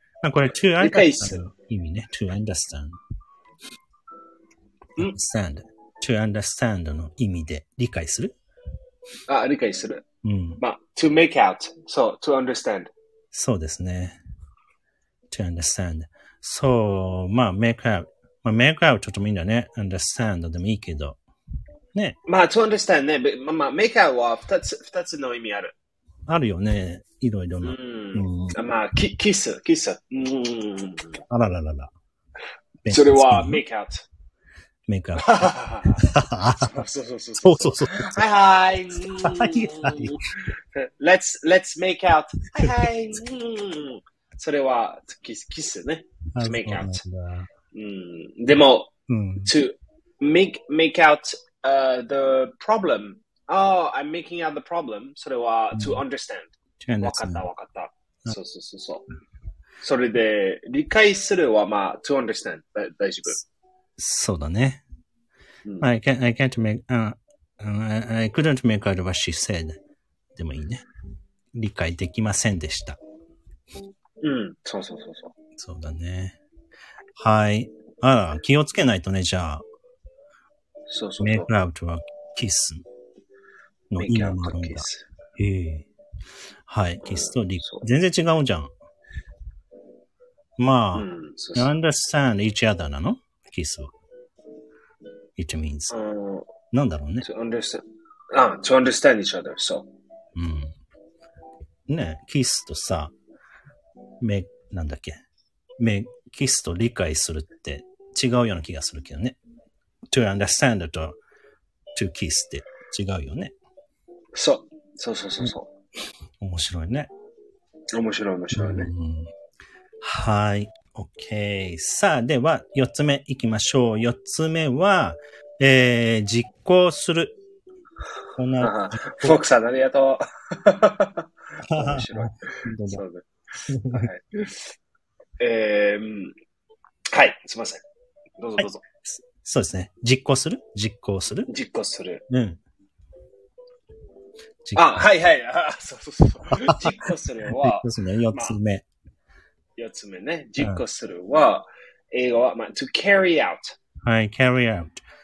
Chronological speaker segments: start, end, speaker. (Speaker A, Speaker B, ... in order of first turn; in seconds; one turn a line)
Speaker A: 0.2-3.0
Speaker B: 0.8-1.4
Speaker A: 5.0-8.3
Speaker B: 9.3-10.0
Speaker A: 10.2-10.6
Speaker B: 10.6-12.9
Speaker A: 13.3-14.2
Speaker A: 15.3-21.2
Speaker B: 22.3-25.7
Speaker A: 26.3-28.6
Speaker B: 27.6-31.2
Speaker A: 31.3-31.9
Speaker A: 32.8-33.6
Speaker B: 32.9-34.0
Speaker A: 34.9-36.8
Speaker B: 35.2-47.0
Speaker A: 37.4-38.3
Speaker A: 38.9-40.2
Speaker A: 42.6-42.8
Speaker A: 46.4-47.5
Speaker B: 47.7-48.9
Speaker A: 49.1-49.5
Speaker B: 49.4-59.1
Speaker A: 55.7-56.0
Speaker A: 56.8-57.5
Speaker B: 59.8-63.4
Speaker A: 64.0-64.8
Speaker A: 65.8-69.8
Speaker A: 70.3-70.8
Speaker A: 71.5-73.0
Speaker B: 74.2-75.3
Speaker A: 75.6-76.4
Speaker A: 77.2-79.6
Speaker B: 80.9-81.5
Speaker A: 81.2-82.8
Speaker A: 83.9-85.9
Speaker B: 84.0-85.0
Speaker A: 86.7-88.7
Speaker B: 87.0-87.9
Speaker A: 90.6-93.9
Speaker B: 90.9-91.7
Speaker A: 95.4-95.9
Speaker B: 95.9-96.5
Speaker A: 96.7-97.3
Speaker B: 97.2-99.9
Speaker A: 100.3-100.7
Speaker A: 101.9-103.1
Speaker A: 104.2-105.2
Speaker A: 105.8-109.4
Speaker A: 110.1-111.2
Speaker A: 111.9-113.5
Speaker B: 114.3-115.7
Speaker A: 116.4-117.1
Speaker B: 117.9-118.9
Speaker A: 118.5-119.3
Speaker A: 120.0-127.4
Speaker A: 128.3-129.4
Speaker B: 128.6-133.2
Speaker A: 131.7-133.0
Speaker A: 133.7-134.1
Speaker B: 133.9-134.6
Speaker B: 135.4-136.3
Speaker B: 137.1-137.8
Speaker B: 138.4-138.8
Speaker A: 138.6-141.5
Speaker B: 141.5-142.2
Speaker A: 142.3-142.6
Speaker A: 144.6-144.9
Speaker B: 144.7-148.6
Speaker A: 147.6-148.8
Speaker B: 149.8-153.7
Speaker A: 154.1-155.0